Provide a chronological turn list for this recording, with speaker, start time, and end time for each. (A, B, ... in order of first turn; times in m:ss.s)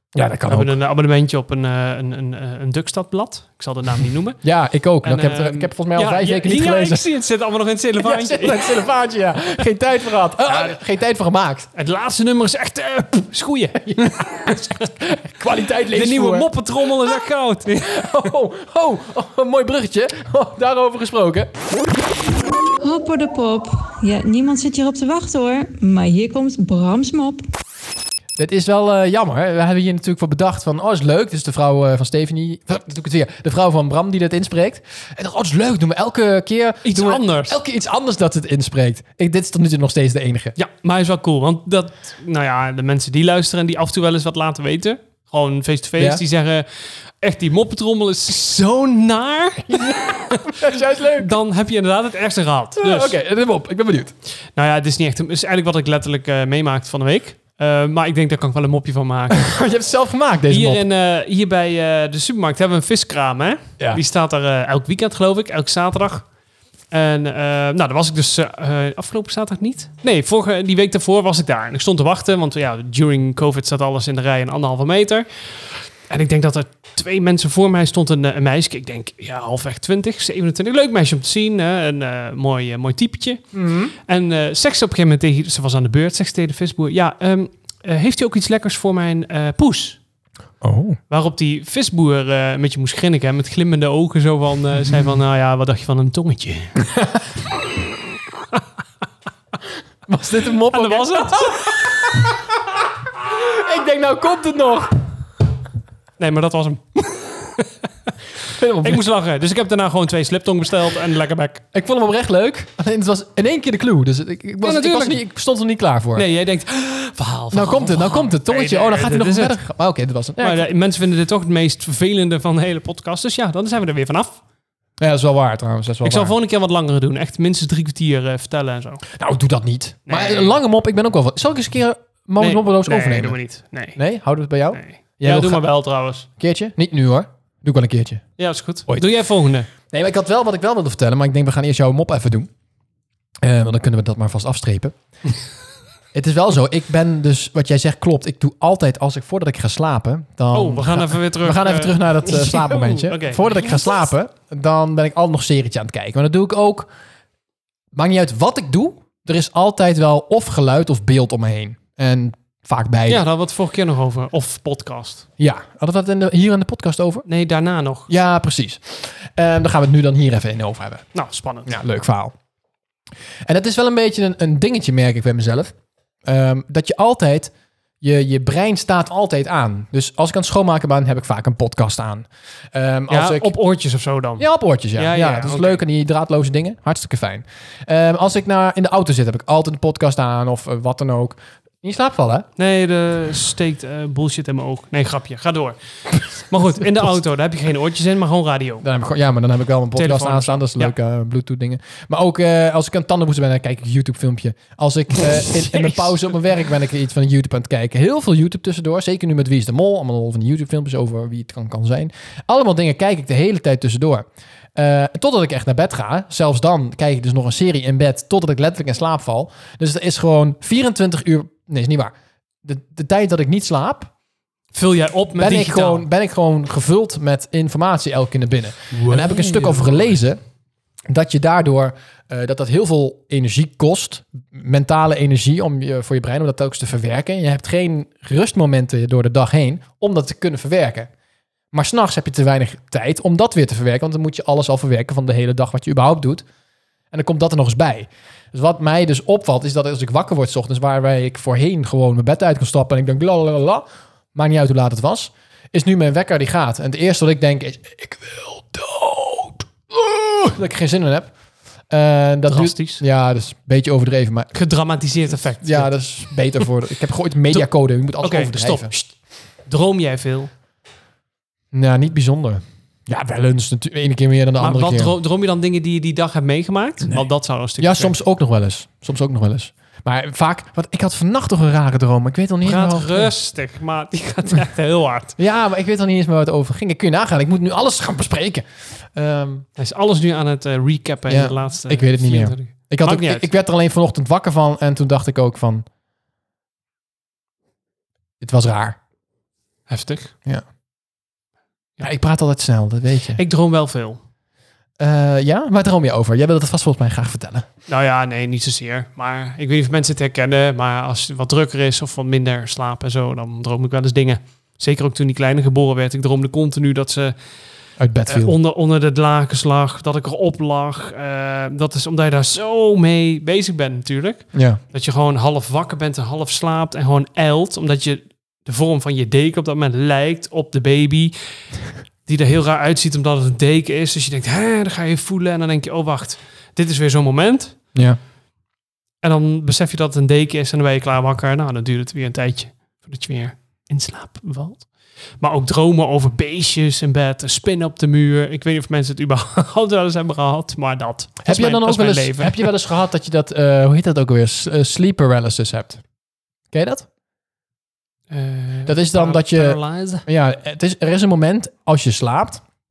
0:00.1-0:00.7 A
0:00.5-0:04.4 B
0:04.4-0:07.0 A
0:05.0-0:08.7 B
0:08.0-0:11.7 A
0:10.5-0:10.8 B
0:11.7-0:14.8 B
0:13.8-0:16.5 A
0:15.9-0:18.0 B
0:17.8-0:21.5 A
0:22.8-0:27.4 C
0:28.4-0:40.5 A
0:36.8-0:37.6 B
0:40.6-0:53.1 B
0:49.7-0:51.3 A
0:52.8-0:54.1 A
0:54.6-0:59.5 B
0:59.3-1:00.8 A
1:00.5-1:06.3 B
1:06.9-1:23.4 B
1:23.5-1:23.9 A
1:24.0-1:30.0 B
1:30.6-1:31.0 A
1:31.1-1:36.8 B
1:40.1-1:45.0 A
1:40.7-1:41.9 B
1:46.2-1:48.1 B
1:48.5-1:49.0 A
1:48.8-1:51.6 B
1:51.7-1:56.2 A
1:54.6-1:55.2 B
1:56.1-1:59.6 B
1:57.5-2:00.6 A
2:00.4-2:04.4 B
2:05.0-2:06.3 A
2:06.0-2:09.0 B
2:09.1-2:13.4 A
2:10.1-2:10.5 B
2:12.4-2:14.0 B
2:14.0-2:15.7 A
2:14.7-2:16.2 B
2:16.4-2:18.2 A
2:18.4-2:19.7 B
2:19.8-2:22.5 A
2:23.4-2:24.9 A
2:26.1-2:36.9 A
2:30.5-2:33.9 B
2:37.9-2:43.2 A
2:43.1-2:45.2 B
2:45.4-2:47.2 A
2:47.2-2:48.1 B
2:48.1-2:51.1 A
2:51.1-2:51.7 B
2:51.6-2:52.3 A
2:53.4-2:55.7 A
2:56.2-3:03.5 A
3:03.1-3:05.8 B
3:04.4-3:12.5 A
3:12.6-3:18.8 B
3:18.8-3:42.1 A
3:20.0-3:20.9 B
3:25.2-3:26.2 B
3:42.6-3:44.1 A
3:44.7-3:46.1 B
3:45.4-3:50.4 A
3:48.9-3:50.1 B
3:51.1-4:01.1 A
4:01.7-4:06.4 A
4:07.1-4:21.3 A
4:21.9-4:24.5 A
4:22.5-4:23.0 B
4:24.5-4:25.9 B
4:25.6-4:28.9 A
4:28.2-4:29.1 B
4:29.6-4:30.5 B
4:31.7-4:35.1 A
4:34.6-4:38.1 B
4:37.8-4:43.3 A
4:42.6-4:45.4 B
4:45.4-4:49.6 A
4:49.8-4:53.5 B
4:51.3-4:55.8 A
4:58.4-4:59.0 A
4:59.9-5:00.3 B
5:02.0-5:03.4 A
5:03.4-5:04.2 B
5:05.0-5:07.7 A
5:07.9-5:17.3 B
5:18.0-5:18.5 A
5:18.3-5:31.3 B
5:24.5-5:24.8 A
5:32.2-5:37.8 B
5:39.2-5:52.7 B
5:51.4-5:56.0 A
5:56.7-5:57.1 A
5:58.3-6:00.2 B
5:58.8-6:02.6 A